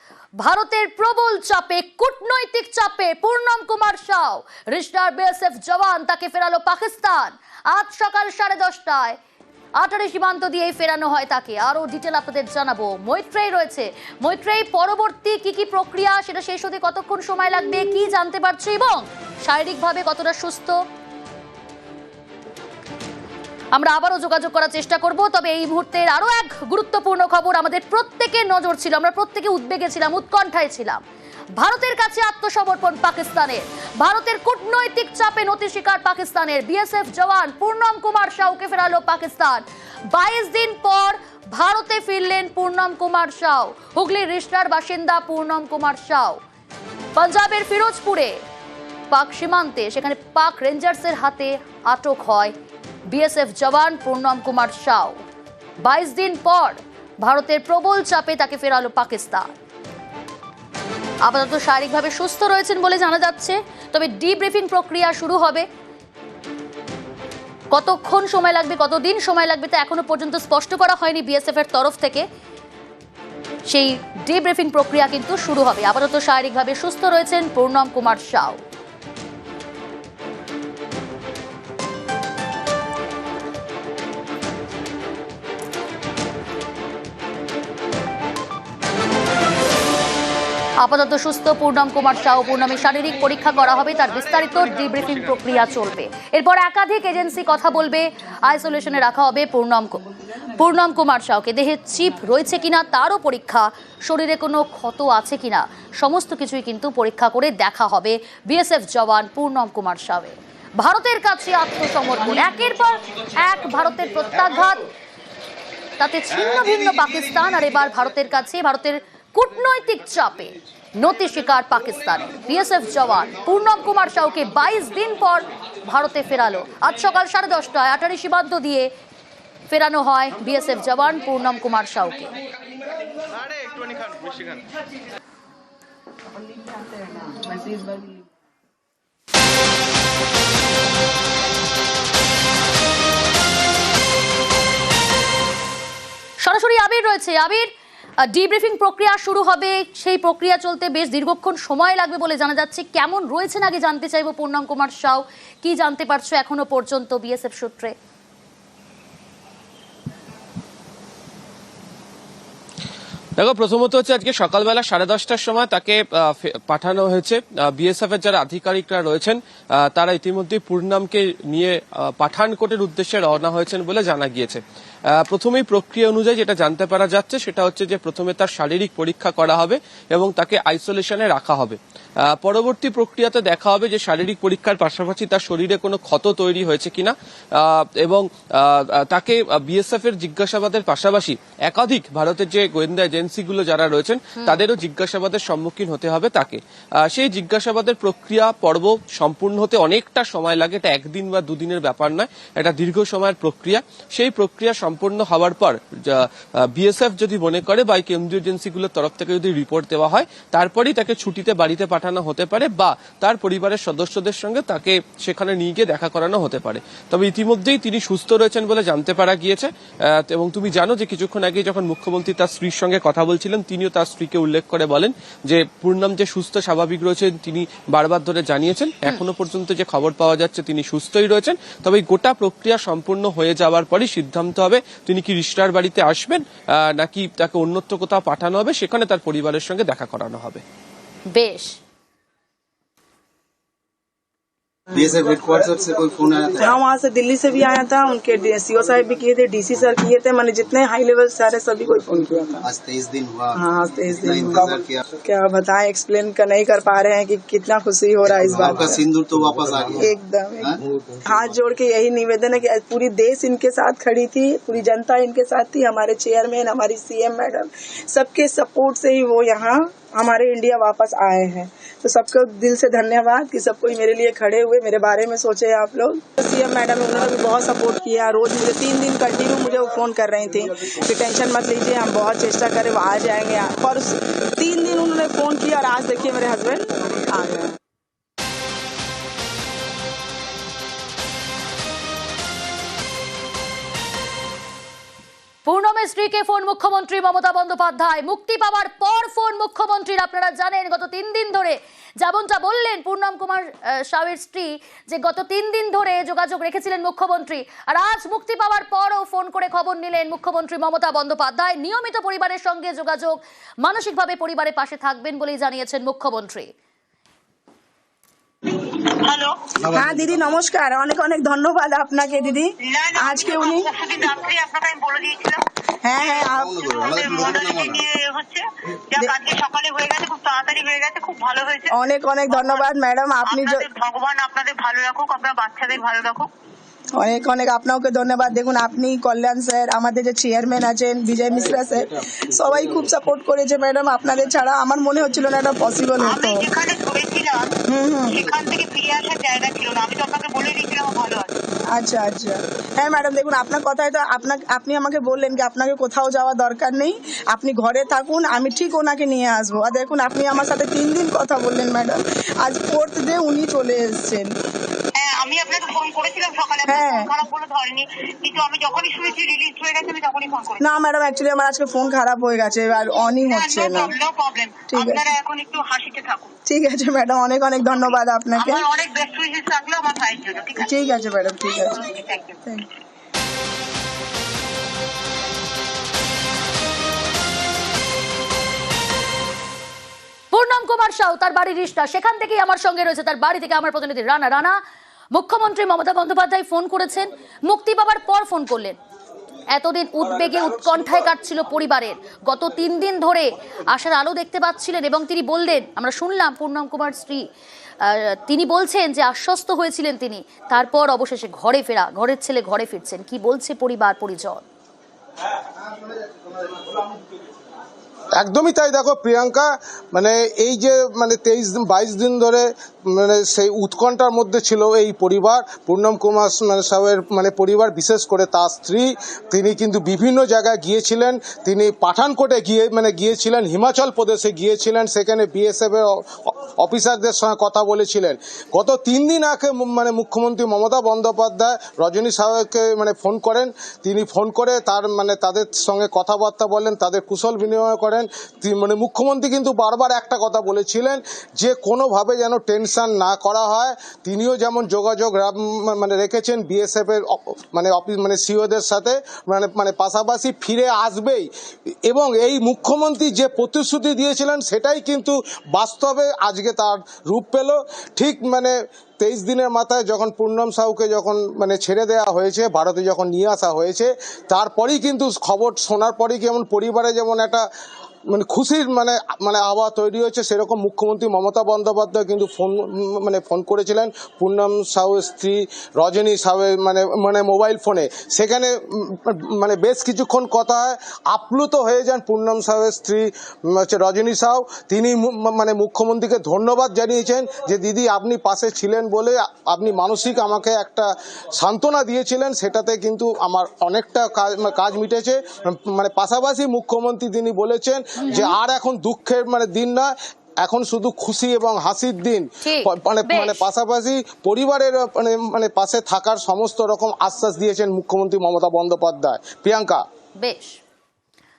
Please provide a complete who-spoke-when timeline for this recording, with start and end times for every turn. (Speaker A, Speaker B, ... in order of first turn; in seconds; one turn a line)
Speaker A: 0.4-9.2
Speaker A: 9.8-20.8
Speaker A: 23.7-31.0
Speaker A: 31.6-46.4
Speaker A: 47.2-48.3
Speaker A: 49.1-52.5
Speaker A: 53.1-55.2
Speaker A: 55.8-59.5
Speaker A: 61.2-65.7
Speaker A: 67.7-72.2
Speaker A: 73.7-78.6
Speaker A: 90.8-100.0
Speaker A: 100.5-114.8
Speaker A: 116.0-128.9
Speaker A: 129.7-132.3
Speaker B: 137.3-138.0
Speaker A: 146.4-147.7
Speaker A: 148.2-157.9
Speaker C: 163.4-240.6
Speaker A: 241.3-241.7
Speaker D: 244.9-246.7
Speaker B: 246.6-252.7
Speaker D: 252.6-255.0
Speaker B: 253.6-259.1
Speaker D: 258.2-260.1
Speaker B: 259.9-287.7
Speaker D: 260.6-261.5
Speaker A: 295.6-316.7
Speaker E: 319.2-319.6
Speaker B: 319.9-323.9
Speaker E: 322.8-325.6
Speaker B: 326.0-326.9
Speaker E: 326.2-331.9
Speaker D: 327.4-327.9
Speaker B: 331.9-333.9
Speaker E: 332.5-332.9
Speaker E: 333.4-336.5
Speaker B: 337.2-346.7
Speaker E: 346.2-347.7
Speaker B: 347.9-348.4
Speaker E: 348.3-351.5
Speaker B: 351.9-364.5
Speaker E: 365.2-370.8
Speaker B: 366.9-367.3
Speaker B: 370.8-374.1
Speaker E: 373.3-376.5
Speaker B: 374.9-375.3
Speaker B: 376.7-378.9
Speaker E: 378.0-380.9
Speaker B: 380.8-382.0
Speaker E: 381.9-382.6
Speaker A: 390.5-394.8
Speaker A: 395.3-399.0
Speaker A: 399.7-407.4
Speaker A: 408.0-414.6
Speaker F: 418.4-461.5
Speaker F: 462.1-477.7
Speaker F: 478.3-510.1
Speaker A: 508.2-508.6
Speaker F: 510.6-520.0
Speaker A: 512.6-513.6
Speaker A: 520.4-520.8